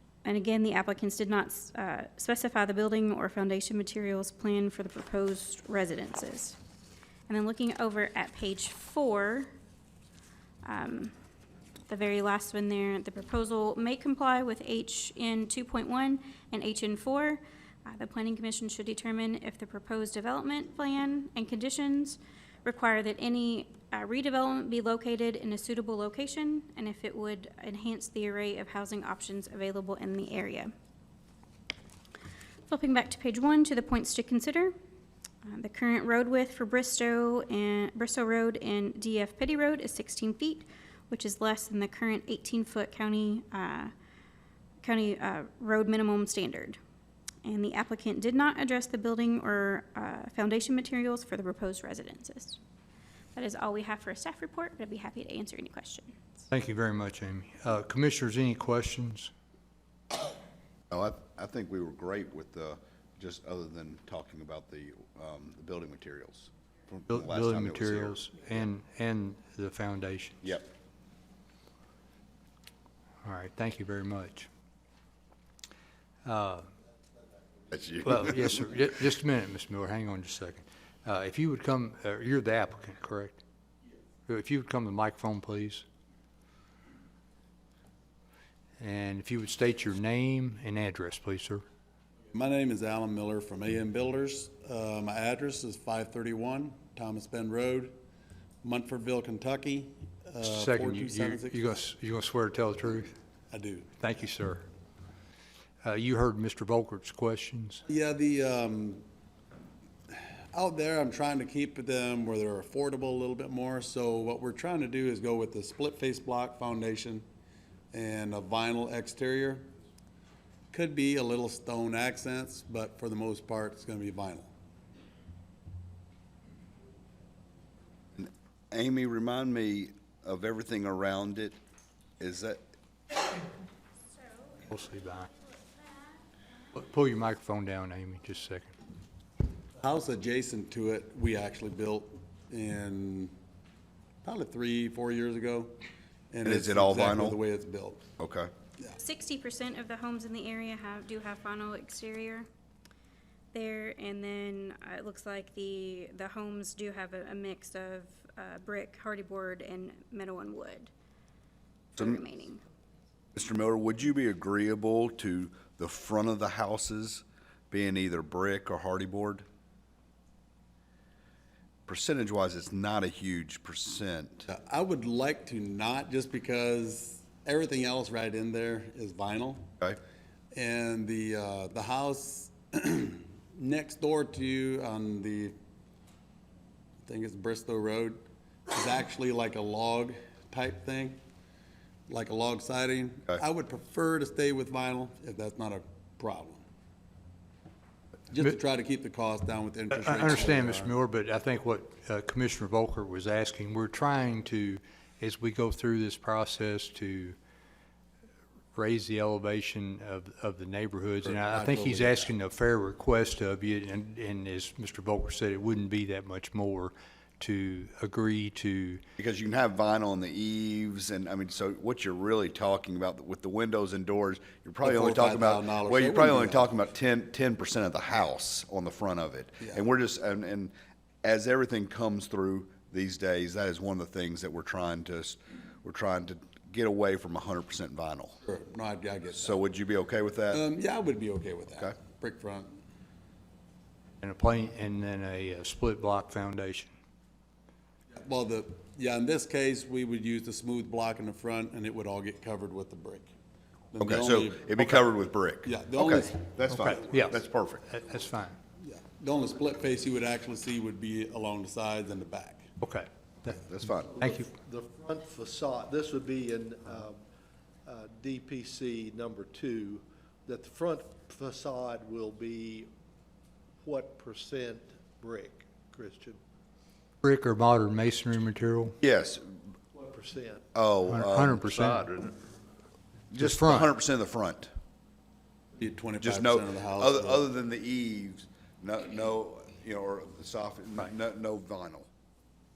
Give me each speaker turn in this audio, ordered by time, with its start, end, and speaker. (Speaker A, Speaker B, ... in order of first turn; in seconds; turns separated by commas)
Speaker A: 0.2-6.6, Speaker A: 7.3-9.5, Speaker A: 10.6-11.1, Speaker A: 11.9-30.7, Speaker A: 32.7-34.8, Speaker A: 35.5-43.9, Speaker A: 44.8-46.8, Speaker A: 47.4-52.6, Speaker A: 53.4-56.2, Speaker B: 56.5-59.3, Speaker C: 60.9-68.2, Speaker B: 67.1-70.5, Speaker B: 73.2-74.5, Speaker B: 76.2-76.7, Speaker C: 77.7-78.6, Speaker B: 78.0-83.4, Speaker B: 84.3-85.8, Speaker B: 88.8-91.6, Speaker D: 92.3-97.9, Speaker D: 98.6-101.6, Speaker B: 100.4-103.1, Speaker D: 103.5-104.0, Speaker B: 104.0-104.7, Speaker B: 105.8-107.8, Speaker D: 107.9-109.0, Speaker D: 110.1-117.2, Speaker D: 117.9-119.7, Speaker D: 120.7-124.5, Speaker C: 128.2-131.6, Speaker C: 132.2-132.6, Speaker B: 134.7-135.3, Speaker B: 136.7-138.7, Speaker D: 139.8-143.3, Speaker D: 144.2-145.8, Speaker D: 146.3-148.0, Speaker C: 146.4-147.4, Speaker C: 148.2-148.5, Speaker A: 149.0-152.5, Speaker A: 153.5-160.9, Speaker A: 161.9-162.6, Speaker C: 163.3-169.4, Speaker C: 171.9-174.5, Speaker D: 174.5-179.7, Speaker D: 180.5-185.5, Speaker D: 187.0-191.2, Speaker D: 192.1-196.6, Speaker D: 198.3-201.0, Speaker B: 199.9-207.4, Speaker B: 208.8-219.0, Speaker D: 211.2-212.3, Speaker C: 219.2-238.4, Speaker D: 224.8-226.7, Speaker D: 238.4-239.6, Speaker C: 239.3-240.6, Speaker D: 240.5-242.8, Speaker B: 244.2-246.9, Speaker D: 248.1-253.3, Speaker D: 253.9-254.8, Speaker C: 254.0-257.9, Speaker D: 255.6-256.4, Speaker B: 256.7-257.3, Speaker B: 257.9-258.6, Speaker D: 258.8-262.7, Speaker B: 262.8-263.6, Speaker C: 263.5-264.2, Speaker E: 264.1-267.2, Speaker B: 264.2-264.5, Speaker E: 267.9-272.9, Speaker E: 273.8-276.4, Speaker B: 277.2-279.0, Speaker C: 279.0-279.6, Speaker E: 279.9-280.6, Speaker C: 280.7-282.0, Speaker B: 281.1-282.1, Speaker C: 283.3-284.7, Speaker B: 283.4-283.9, Speaker D: 285.8-287.4, Speaker C: 286.2-292.1